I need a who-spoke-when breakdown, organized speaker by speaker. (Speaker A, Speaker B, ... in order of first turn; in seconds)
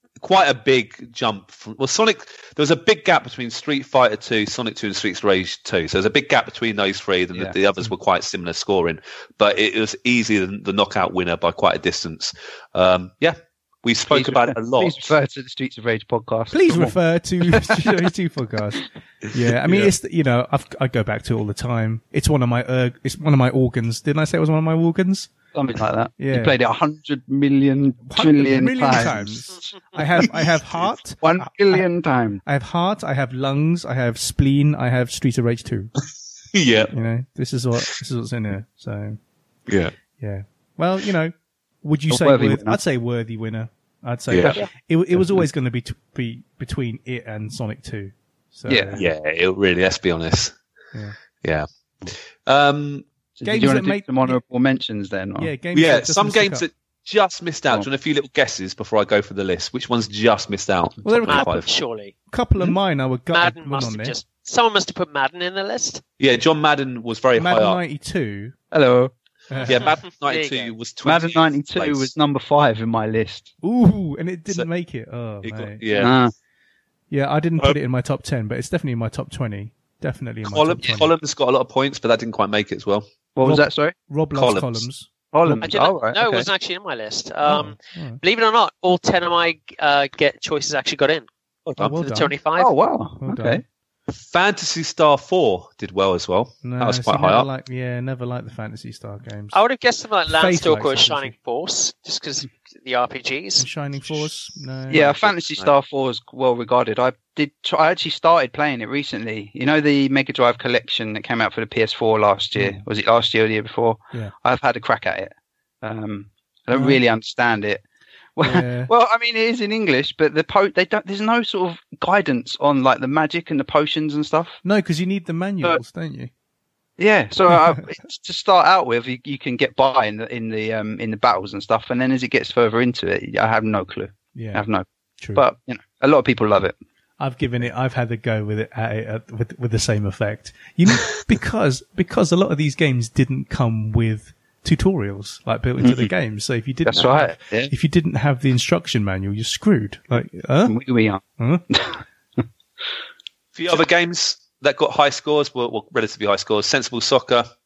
Speaker A: 0.2-15.1, 36.5-36.9, 39.7-39.9, 44.3-44.6, 49.0-50.6, 51.4-53.0, 55.7-61.7, 66.2-67.8, 69.7-72.1, 75.4-76.1, 80.4-83.1, 84.3-84.8, 91.7-91.9, 94.1-97.5, 105.0-105.7, 153.5-157.5
Speaker B: 14.1-18.0, 25.5-29.3, 31.2-32.4, 42.1-42.8, 48.7-49.0, 53.4-55.5, 68.7-69.1, 71.0-73.5, 76.0-76.3, 83.3-83.9, 85.3-86.5, 92.6-93.6, 104.9-115.3, 115.8-117.8, 118.4-124.6, 127.0-136.7, 146.8-147.7, 150.7-152.4
Speaker C: 16.5-25.3, 26.2-26.6, 28.1-31.9, 32.4-35.9, 36.9-39.2, 40.2-49.1, 53.4-54.4, 55.4-56.7, 61.0-61.6, 62.3-64.1, 67.3-68.5, 69.5-69.9, 73.6-76.1, 77.1-81.1, 83.4-85.7, 87.4-88.2, 91.8-92.3, 93.2-93.6, 96.6-99.5, 100.3-101.3, 103.6-105.2, 112.5-112.8, 116.7-117.0, 118.4-118.9, 124.6-126.3, 134.3-134.7, 137.2-150.8, 151.4-151.7
Speaker D: 61.3-62.1, 63.3-66.0, 69.7-70.7, 85.6-91.2, 91.8-92.7, 99.5-103.6